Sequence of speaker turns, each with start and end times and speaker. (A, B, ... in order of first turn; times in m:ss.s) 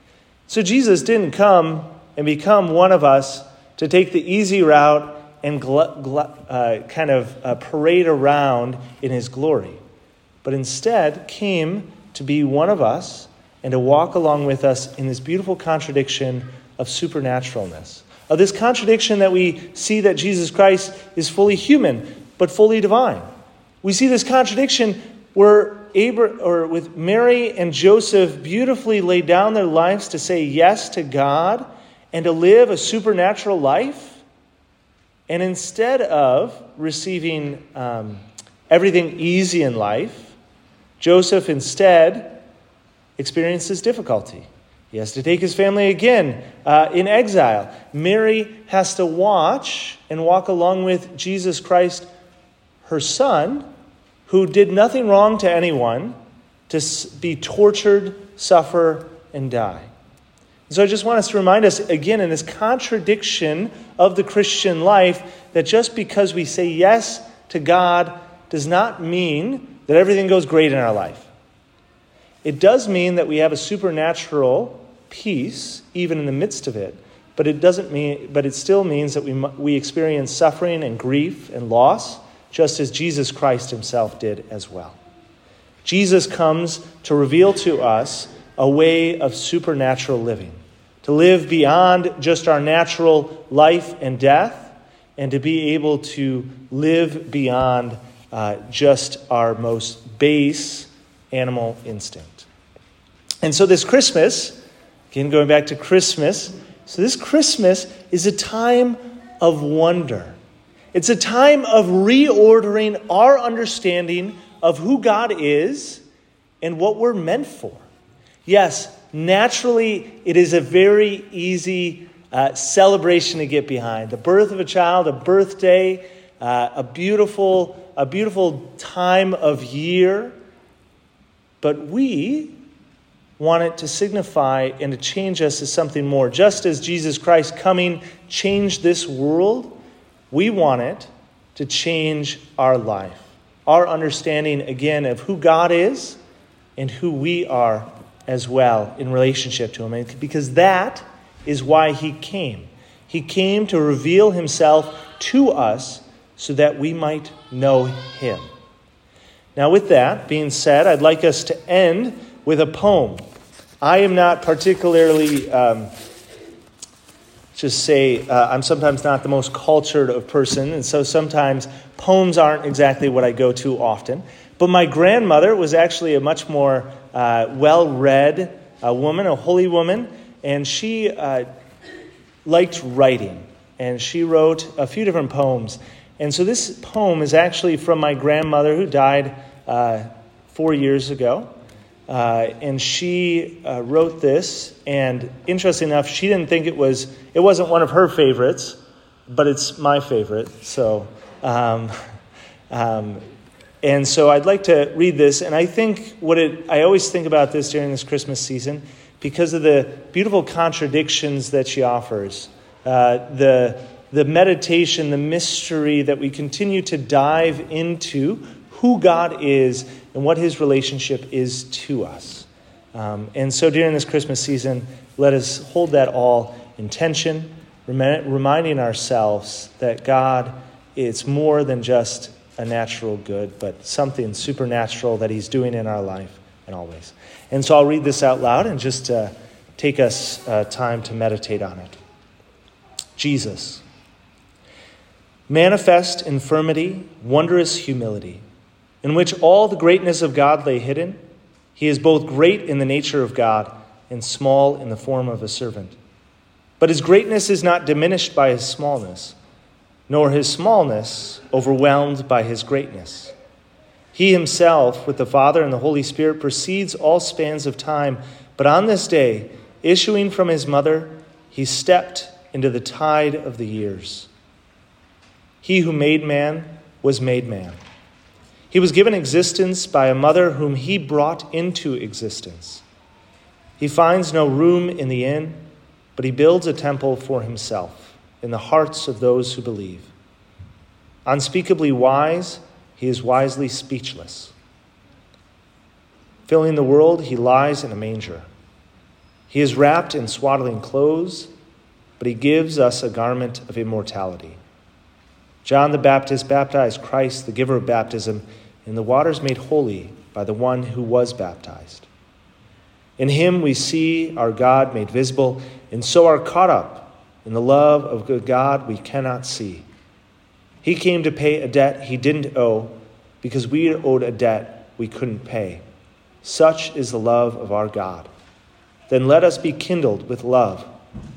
0:00.5-0:09.8 A
0:10.4-0:23.3 A
0:23.8-0:34.2 A
0:35.3-0:40.4 A
0:41.0-0:42.4 A
0:43.2-0:52.1 A
0:52.8-0:53.6 A
0:54.3-0:56.2 A
0:56.7-0:59.9 A
1:00.7-1:11.3 A
1:12.4-1:25.0 A
1:25.8-1:42.5 A
1:43.4-1:44.6 A
1:45.1-1:50.4 A
1:50.9-1:56.0 A
1:56.6-1:57.8 A
1:58.4-2:10.4 A
2:11.6-2:12.6 A
2:13.4-2:19.8 A
2:20.3-2:26.2 A
2:26.8-2:38.4 A
2:39.6-2:43.2 A
2:43.8-2:45.9 A
2:47.6-3:01.5 A
3:02.4-3:11.5 A
3:12.1-3:18.8 A
3:19.3-3:22.0 A
3:22.7-3:23.2 A
3:23.8-4:02.0 A
4:03.2-4:03.8 A
4:05.5-4:08.4 A
4:09.0-4:11.2 A
4:11.8-4:16.0 A
4:16.8-4:19.4 A
4:20.1-4:23.3 A
4:24.1-4:34.3 A
4:35.6-4:37.8 A
4:38.7-4:42.8 A
4:43.8-4:45.6 A
4:46.2-4:50.1 A
4:51.2-4:54.5 A
4:56.5-4:58.5 A
4:59.5-5:01.5 A
5:02.2-5:04.6 A
5:05.6-5:12.1 A
5:13.2-5:19.9 A
5:20.8-5:25.8 A
5:26.4-5:28.3 A
5:29.1-5:30.9 A